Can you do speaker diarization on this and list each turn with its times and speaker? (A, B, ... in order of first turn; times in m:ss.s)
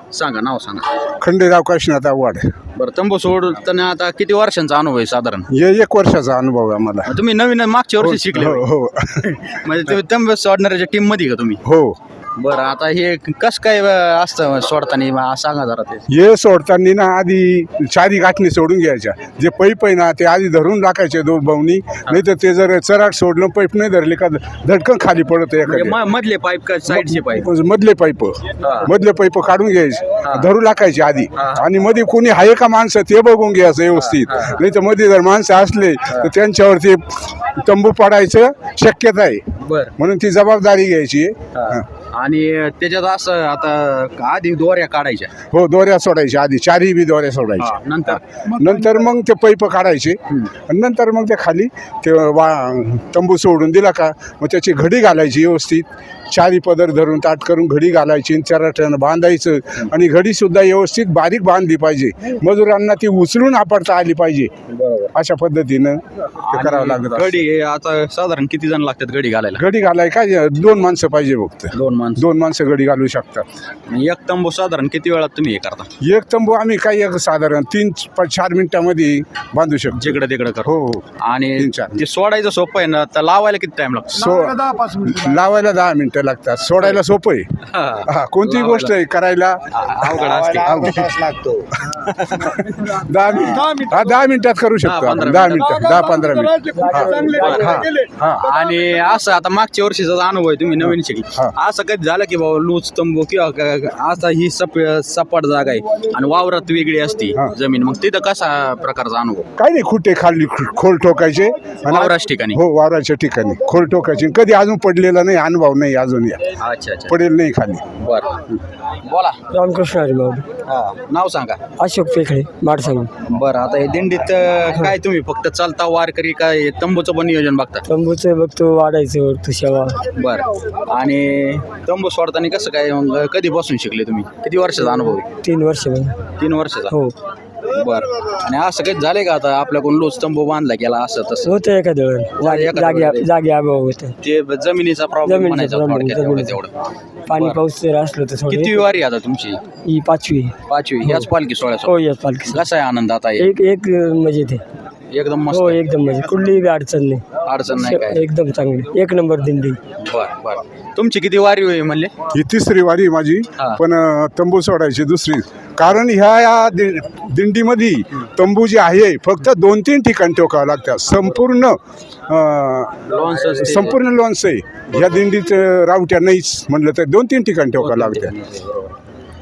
0:00.1-0:00.9 A
0:01.2-0:02.5 B
0:02.8-0:05.5 A
0:05.5-0:07.1 B
0:07.1-0:08.6 A
0:08.0-0:09.5 B
0:09.4-0:11.6 A
0:11.6-0:12.0 B
0:12.4-0:16.0 A
0:16.1-0:26.0 B
0:25.7-0:27.5 A
0:26.9-0:39.4 B
0:28.6-0:28.9 A
0:30.2-0:30.5 A
0:31.4-0:31.6 A
0:33.9-0:34.6 A
0:39.6-0:39.9 A
0:40.0-0:41.8 B
0:41.5-0:45.3 A
0:45.5-1:04.5 B
0:47.6-0:48.2 A
1:04.7-1:05.1 A
1:05.1-1:07.4 B
1:06.4-1:09.6 A
1:09.6-1:13.4 B
1:11.7-1:12.2 A
1:13.9-1:15.9 A
1:16.0-1:21.1 B
1:19.9-1:20.7 A
1:21.2-1:24.3 A
1:21.6-1:22.0 B
1:24.2-1:27.4 B
1:27.7-1:29.0 A
1:28.0-1:31.1 B
1:29.7-1:32.5 A
1:32.4-1:38.6 B
1:33.4-1:33.7 A
1:34.8-1:36.3 A
1:36.6-1:37.8 C
1:37.3-1:49.4 A
1:40.8-1:41.5 B
1:49.6-1:56.4 B
1:51.8-1:52.6 A
1:56.6-1:57.2 A
1:57.1-1:57.8 B
1:58.0-1:58.4 A
1:59.0-1:59.4 A
1:59.5-2:00.4 C
2:00.6-2:01.6 A
2:01.8-2:03.1 C
2:03.2-2:07.8 A
2:07.8-2:10.0 C
2:10.2-2:15.3 A
2:15.4-2:16.1 C
2:16.4-2:17.0 A
2:17.7-2:21.5 A
2:21.4-2:24.1 C
2:22.4-2:23.3 A
2:24.2-2:26.7 A
2:25.2-2:26.6 C
2:27.3-2:28.9 C
2:27.3-2:27.6 A
2:28.5-2:29.6 A
2:29.8-2:31.3 C
2:30.7-2:31.9 A
2:31.8-2:32.6 C
2:32.4-2:33.5 A
2:33.4-2:34.6 C
2:35.1-2:35.8 A
2:35.5-2:39.8 C
2:37.4-2:38.2 A
2:40.0-2:42.1 A
2:42.3-2:58.3 B
2:53.1-2:54.0 A
2:57.8-2:59.0 A